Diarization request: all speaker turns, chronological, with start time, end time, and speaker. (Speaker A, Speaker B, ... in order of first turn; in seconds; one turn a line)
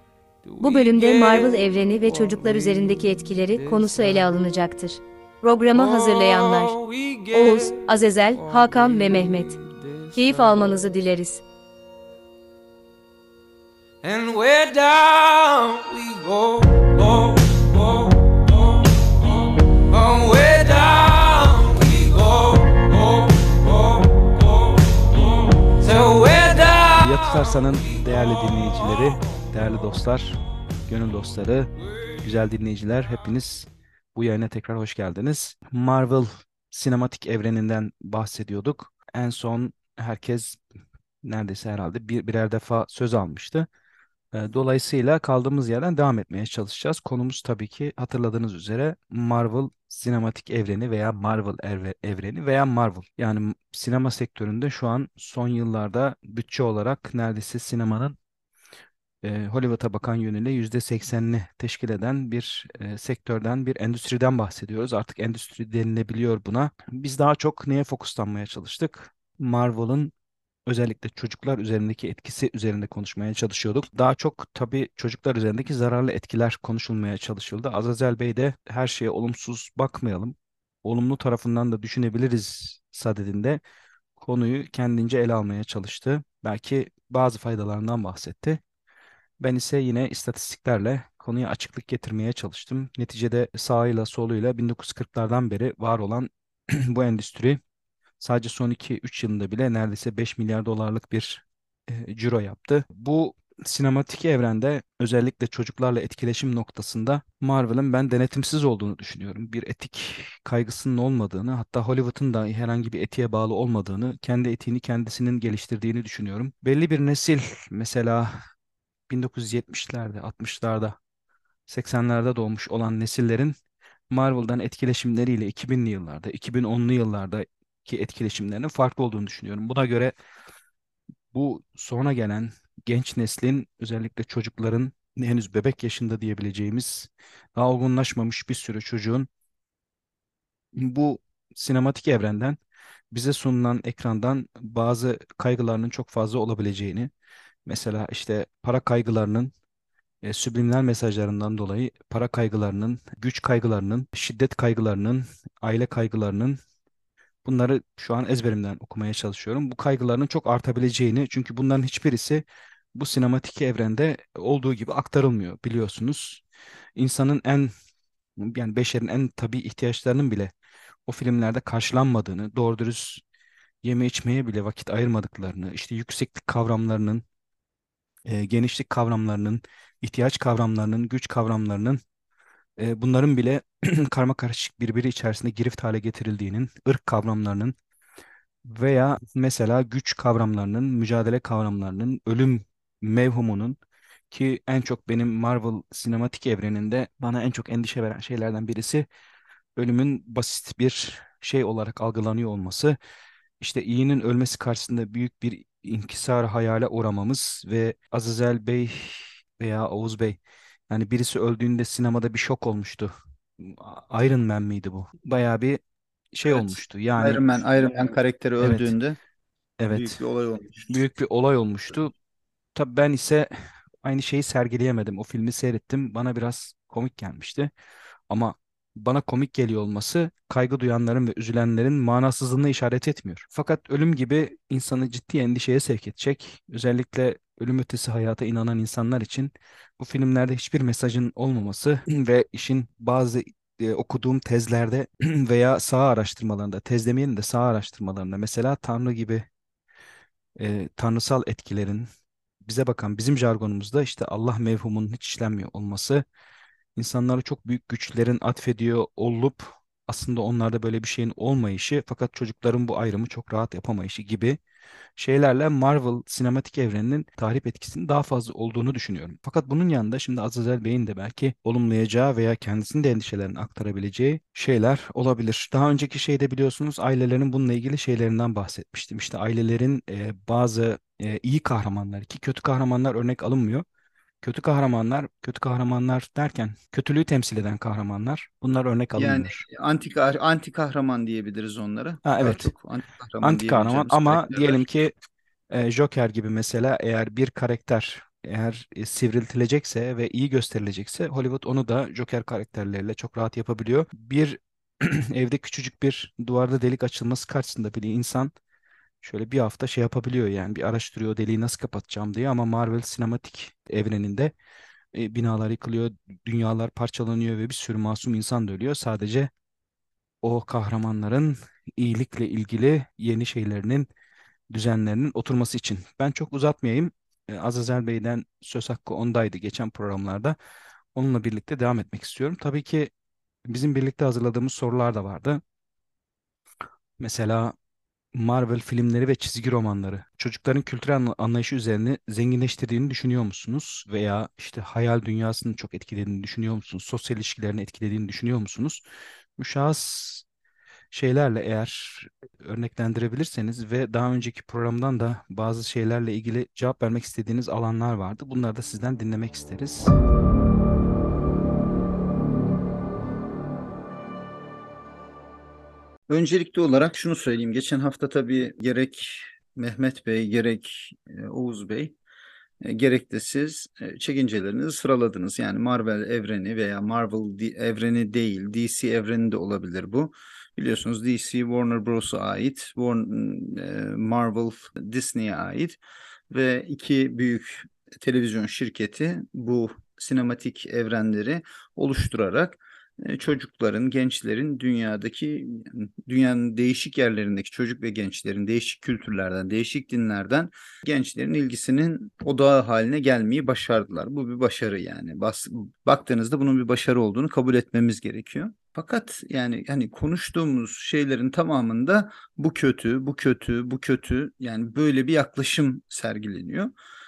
Speaker A: 0.4-1.5
Speaker B: 0.6-6.8
Speaker A: 3.9-4.2
Speaker A: 5.8-7.7
Speaker B: 7.3-9.5
Speaker A: 8.7-10.5
Speaker B: 10.1-11.4
Speaker A: 14.0-27.2
Speaker C: 27.0-40.6
Speaker C: 41.2-43.7
Speaker C: 44.3-58.2
Speaker C: 59.2-70.1
Speaker C: 70.7-83.6
Speaker C: 84.2-88.6
Speaker C: 89.4-97.6
Speaker C: 98.2-118.4
Speaker C: 119.1-121.0
Speaker C: 121.7-123.5
Speaker C: 124.1-130.1
Speaker C: 131.3-139.3
Speaker C: 140.8-142.6
Speaker C: 143.1-147.1
Speaker C: 147.7-149.5
Speaker C: 150.2-156.6
Speaker C: 157.4-162.4
Speaker C: 162.9-166.4
Speaker C: 166.9-167.7
Speaker C: 168.4-170.5
Speaker C: 171.1-173.2
Speaker C: 173.8-177.2
Speaker C: 178.2-182.0
Speaker C: 182.8-187.7
Speaker C: 188.6-193.8
Speaker C: 194.3-199.1
Speaker C: 199.8-202.9
Speaker C: 203.6-215.8
Speaker C: 216.3-217.4
Speaker D: 216.4-219.2
Speaker C: 218.6-218.9
Speaker C: 219.8-220.2
Speaker D: 219.9-220.9
Speaker C: 220.9-222.1
Speaker C: 222.7-223.5
Speaker C: 224.0-227.7
Speaker C: 228.3-249.4
Speaker C: 250.6-252.1
Speaker C: 252.6-256.2
Speaker C: 256.9-264.6
Speaker C: 265.2-283.8
Speaker C: 284.4-289.6
Speaker D: 289.1-294.9
Speaker C: 292.2-292.7
Speaker C: 293.4-295.1
Speaker C: 295.7-308.5
Speaker C: 309.2-314.5
Speaker C: 315.1-319.5
Speaker C: 320.4-324.1
Speaker C: 324.7-330.5
Speaker C: 331.1-333.1
Speaker C: 333.7-335.6
Speaker C: 337.2-337.7
Speaker C: 338.3-349.0
Speaker C: 349.6-350.4
Speaker C: 351.1-360.1
Speaker D: 366.3-372.1
Speaker D: 372.8-386.0
Speaker D: 386.5-416.9